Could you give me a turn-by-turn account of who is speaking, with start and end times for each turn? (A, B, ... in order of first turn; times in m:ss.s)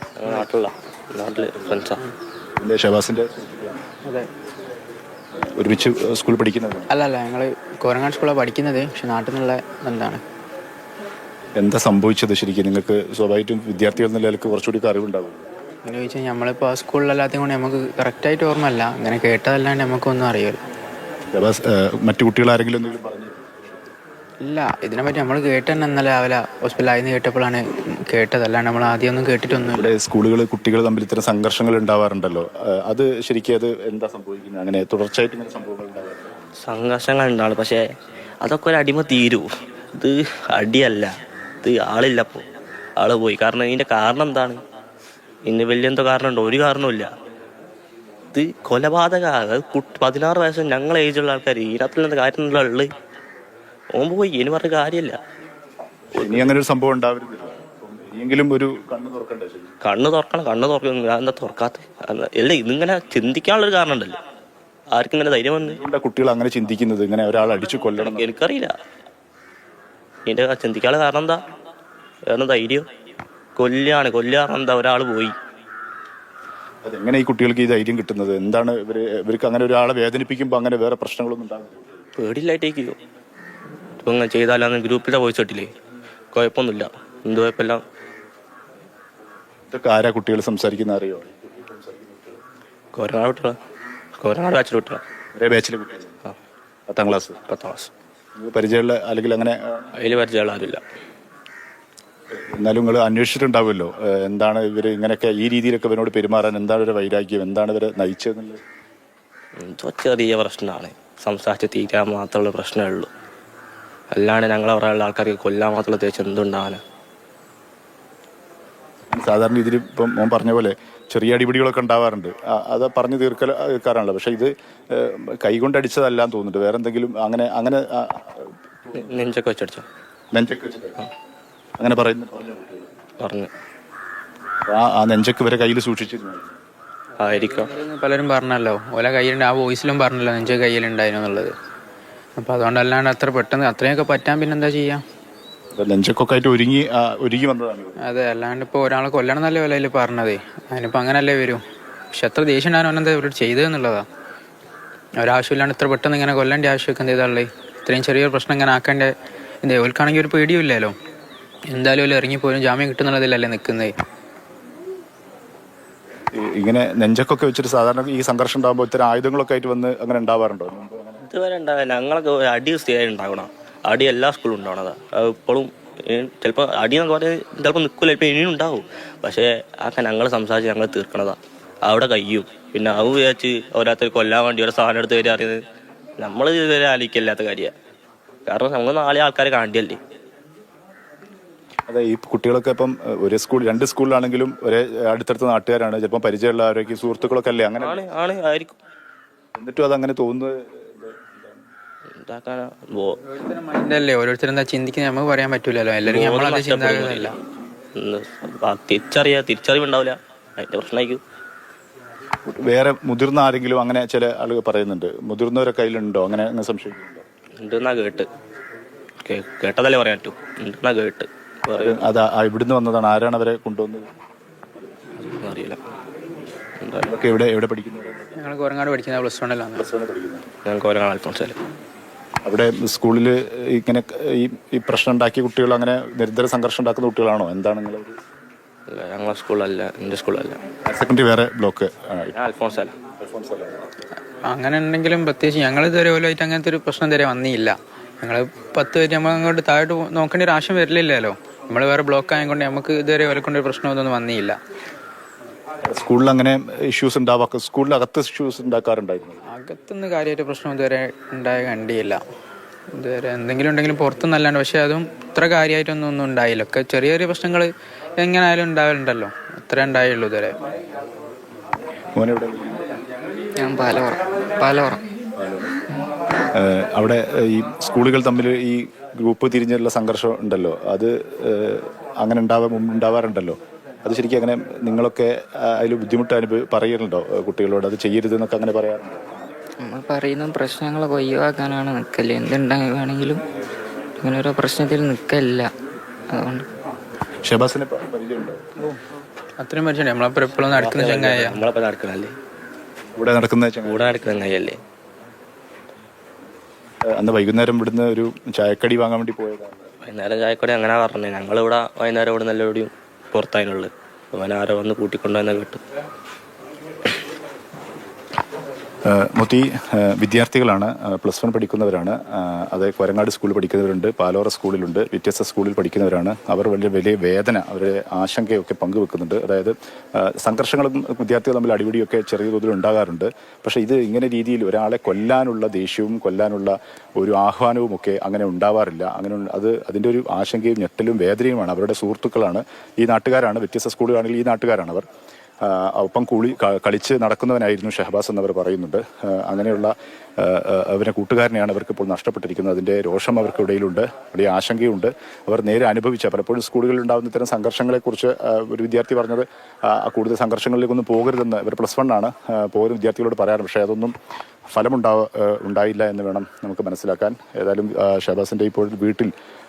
0:00.2-0:02.0 A
0:02.6-0:03.8 B
0:05.4-0:06.9 B
0:06.9-0:10.2 C
0:11.6-0:15.5 B
0:15.8-0:20.6 C
0:21.3-0:23.5 B
0:24.4-0:29.9 C
0:29.7-0:36.3 B
0:36.6-0:37.8 A
0:38.4-0:41.1 A
0:41.6-0:42.4 A
0:43.0-0:44.6 A
0:45.5-0:47.1 A
0:48.3-0:52.9 A
0:54.0-0:55.2 A
0:56.1-0:59.8 B
0:56.2-0:56.5 A
0:59.8-1:04.2 A
1:04.9-1:05.8 A
1:05.6-1:08.3 B
1:07.9-1:08.7 A
1:10.3-1:11.4 A
1:12.3-1:12.9 A
1:13.6-1:15.3 A
1:16.8-1:22.0 B
1:22.2-1:23.0 A
1:24.0-1:25.7 A
1:26.3-1:27.8 A
1:29.7-1:32.4 B
1:32.9-1:33.6 A
1:34.2-1:35.0 A
1:35.4-1:36.2 B
1:36.9-1:37.4 B
1:37.4-1:37.9 A
1:38.4-1:39.9 B
1:40.0-1:40.8 A
1:42.4-1:48.6 B
1:49.6-1:53.1 A
1:54.1-1:56.8 A
1:59.1-2:09.2 B
2:08.9-2:09.8 A
2:10.3-2:11.1 B
2:11.8-2:12.9 B
2:13.2-2:13.5 A
2:14.7-2:16.6 B
2:17.2-2:17.8 A
2:17.6-2:21.5 C
2:22.4-2:25.0 C
2:25.8-2:28.0 B
2:28.0-2:31.6 C
2:32.1-2:34.1 C
2:35.2-2:41.0 C
2:41.7-2:43.9 C
2:46.3-2:51.3 B
2:51.3-3:05.6 A
3:06.2-3:07.7 A
3:08.5-3:10.0 A
3:11.9-3:18.0 B
3:17.8-3:18.8 A
3:19.6-3:21.5 B
3:22.2-3:23.2 A
3:23.3-3:27.4 C
3:26.0-3:27.4 A
3:28.0-3:31.2 A
3:32.5-3:37.2 B
3:37.6-3:38.3 A
3:39.2-3:42.1 A
3:41.7-3:44.1 B
3:45.2-3:45.8 A
3:46.8-3:47.1 A
3:47.0-3:48.4 B
3:48.4-3:49.9 C
3:49.8-3:50.5 B
3:50.6-3:51.6 A
3:52.4-3:58.2 B
3:58.9-4:00.6 A
4:00.9-4:02.3 B
4:02.3-4:03.0 A
4:03.2-4:03.9 B
4:04.5-4:14.6 C
4:15.9-4:19.4 B
4:19.5-4:22.2 C
4:22.9-4:30.6 C
4:32.2-4:32.8 B
4:33.6-4:35.0 D
4:35.4-4:35.8 B
4:36.5-4:49.5 B
4:49.8-4:53.4 D
4:54.2-4:55.7 D
4:56.3-4:56.7 D
4:57.4-4:58.6 B
4:59.6-5:01.6 C
5:00.7-5:02.3 A
5:03.2-5:04.2 B
5:03.8-5:04.8 A
5:07.1-5:09.9 B
5:10.0-5:15.8 A
5:19.0-5:45.1 B
5:45.6-6:04.2 B
6:04.7-6:09.3 B